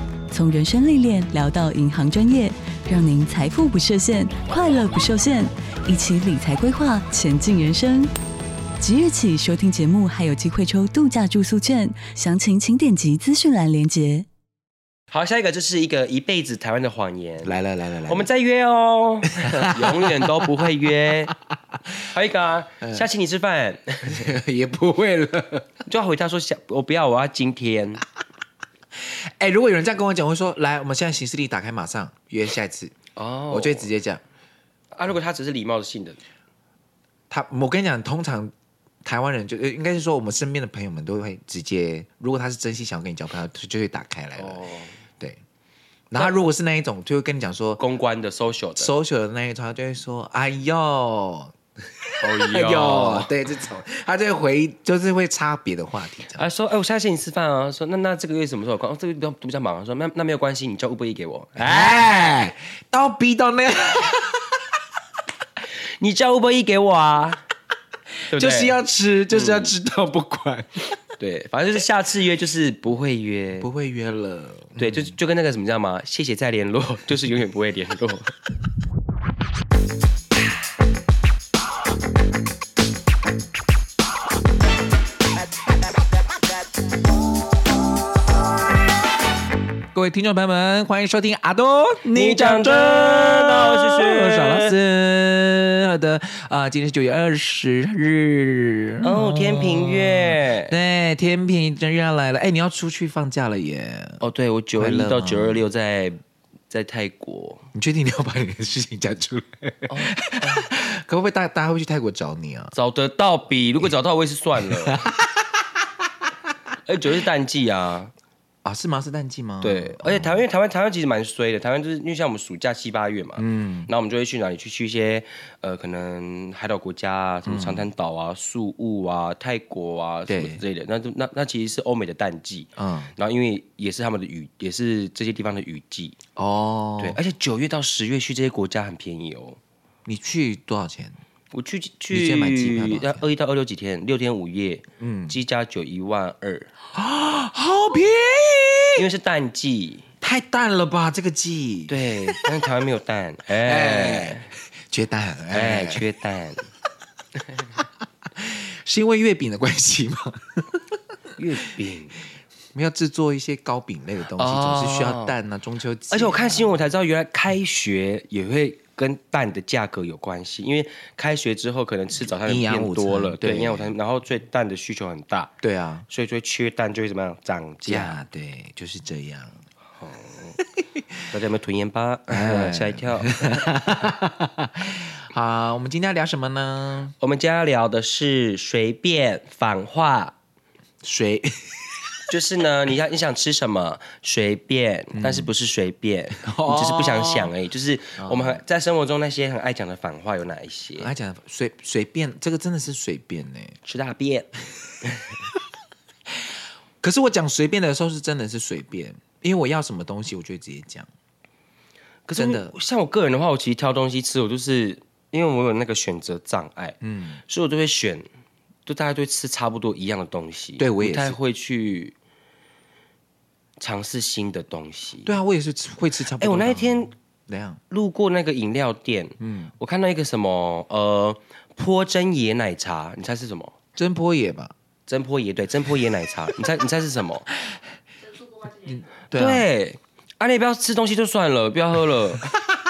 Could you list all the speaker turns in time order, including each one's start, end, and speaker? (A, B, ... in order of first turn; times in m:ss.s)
0:00.3-0:08.1 A
0:08.8-0:14.3 A
0:15.1-0:21.4 B
0:17.4-0:18.3 C
0:19.4-0:20.6 C
0:22.0-0:24.2 B
0:22.8-0:23.1 C
0:24.1-0:25.7 C
0:25.9-0:28.0 B
0:29.0-0:33.0 C
0:33.2-0:33.9 B
0:33.5-0:34.2 C
0:34.9-0:36.2 B
0:37.3-0:38.5 C
0:39.0-0:44.6 C
0:44.4-0:45.0 B
0:46.1-0:47.8 C
0:47.8-0:48.9 B
0:48.8-0:56.4 C
0:52.2-0:53.3 B
0:56.3-1:01.9 B
1:01.6-1:04.6 C
1:06.0-1:07.4 B
1:08.3-1:08.8 B
1:08.3-1:11.0 C
1:09.3-1:09.7 B
1:11.2-1:13.7 B
1:13.6-1:15.2 C
1:14.8-1:18.4 B
1:29.9-1:44.2 C
1:32.1-1:34.8 B
1:39.0-1:40.8 B
1:44.2-1:47.7 B
1:44.8-1:45.7 C
1:47.7-1:52.7 C
1:49.9-1:50.7 B
1:52.7-1:55.0 B
1:54.6-1:55.9 C
1:56.9-1:58.1 B
1:58.6-2:00.4 C
1:59.6-2:16.2 B
2:03.4-2:03.9 C
2:07.5-2:07.9 C
2:10.3-2:10.6 C
2:12.8-2:13.1 C
2:16.4-2:17.2 C
2:17.0-2:19.6 B
2:20.0-2:21.2 C
2:21.5-2:26.7 B
2:22.1-2:23.2 C
2:25.0-2:25.4 C
2:26.9-2:29.0 C
2:29.0-2:30.1 B
2:30.2-2:32.5 C
2:31.9-2:34.5 B
2:33.5-2:36.0 C
2:35.5-2:36.7 B
2:38.4-2:41.0 C
2:41.4-2:42.2 B
2:42.7-2:46.8 C
2:44.4-2:45.3 B
2:46.1-2:55.5 B
2:52.2-2:53.9 C
2:55.6-2:56.1 C
2:56.1-2:58.2 B
2:57.9-2:59.6 C
3:00.0-3:00.6 B
3:00.8-3:01.2 C
3:01.3-3:03.6 B
3:02.3-3:07.1 C
3:07.2-3:10.3 B
3:11.0-3:12.0 C
3:12.3-3:21.1 B
3:15.2-3:15.5 C
3:16.4-3:17.5 C
3:18.2-3:18.6 C
3:21.0-3:23.8 C
3:23.8-3:24.5 B
3:25.0-3:25.3 B
3:27.0-3:31.1 C
3:32.3-3:38.3 B
3:32.4-3:32.7 C
3:37.0-3:37.4 C
3:38.9-3:42.2 B
3:40.8-3:41.4 C
3:43.8-3:45.4 B
3:45.2-3:47.8 C
3:46.4-3:47.1 B
3:47.9-3:53.8 B
3:49.4-3:49.7 C
3:54.0-3:54.7 C
3:55.1-3:57.5 B
3:58.6-3:59.7 C
3:59.3-4:02.5 B